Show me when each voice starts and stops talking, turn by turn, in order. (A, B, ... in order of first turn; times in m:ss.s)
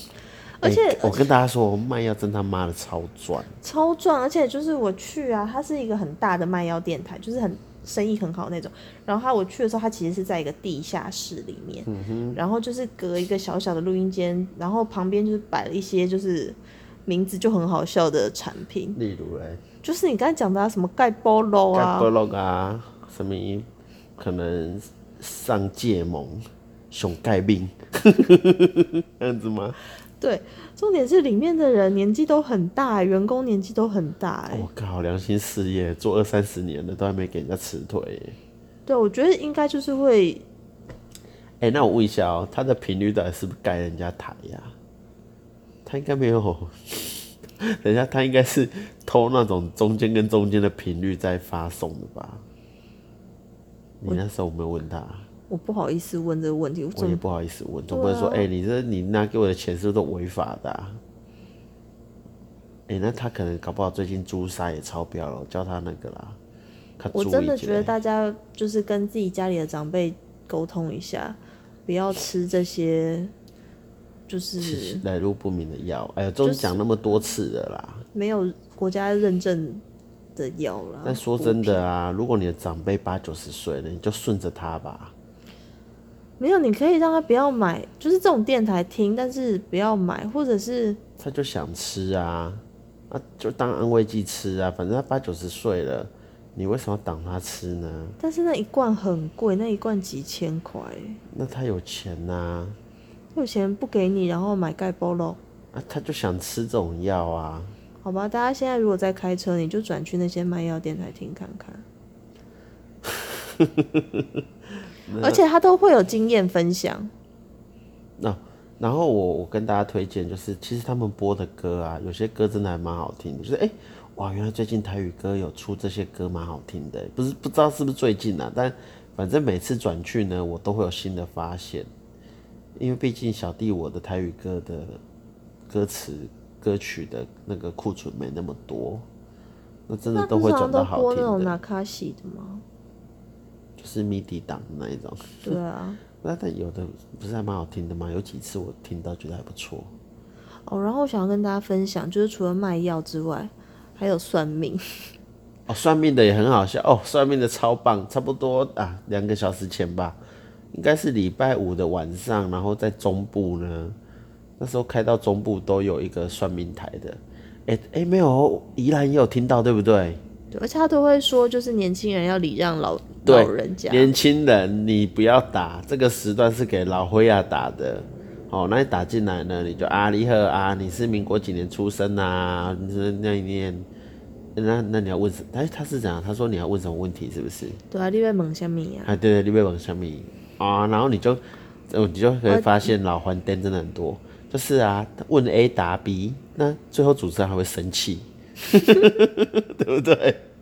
0:00.6-0:01.3 A
0:00.6-0:03.5 B
0:03.6-0:19.0 A
0:11.9-0:12.4 B
0:19.0-0:19.6 B
0:19.8-0:22.1 A
0:21.7-0:29.8 B
0:30.2-0:34.7 A
0:34.5-0:38.4 B
0:38.9-0:40.4 A
0:41.6-0:44.7 B
0:45.9-0:52.4 B
0:54.0-0:55.3 B
0:55.5-0:57.2 A
0:57.0-1:01.0 B
0:57.9-0:58.5 A
1:02.9-1:06.4 B
1:07.0-1:07.9 B
1:07.1-1:13.3 A
1:14.3-1:15.0 A
1:14.6-1:18.1 B
1:16.4-1:16.8 A
1:18.1-1:19.8 A
1:20.4-1:21.8 A
1:21.0-1:25.1 B
1:26.4-1:31.0 A
1:31.2-1:38.2 B
1:38.2-1:41.2 A
1:41.3-1:42.8 B
1:43.4-1:45.4 A
1:45.7-1:47.8 B
1:48.0-1:51.8 A
1:53.0-1:54.4 B
1:55.0-1:55.4 B
1:55.2-1:57.1 A
1:58.2-2:11.9 B
2:12.8-2:15.0 B
2:15.7-2:19.1 B
2:19.9-2:21.6 B
2:20.1-2:22.6 A
2:23.8-2:25.6 B
2:25.4-2:26.0 A
2:26.2-2:29.9 B
2:30.7-2:35.1 A
2:35.7-2:40.2 B
2:40.7-2:44.0 B
2:44.6-2:50.2 B
2:50.5-2:54.1 A
2:53.2-3:03.9 B
3:04.6-3:07.8 B
3:07.9-3:09.2 A
3:09.0-3:20.4 B
3:12.5-3:12.9 A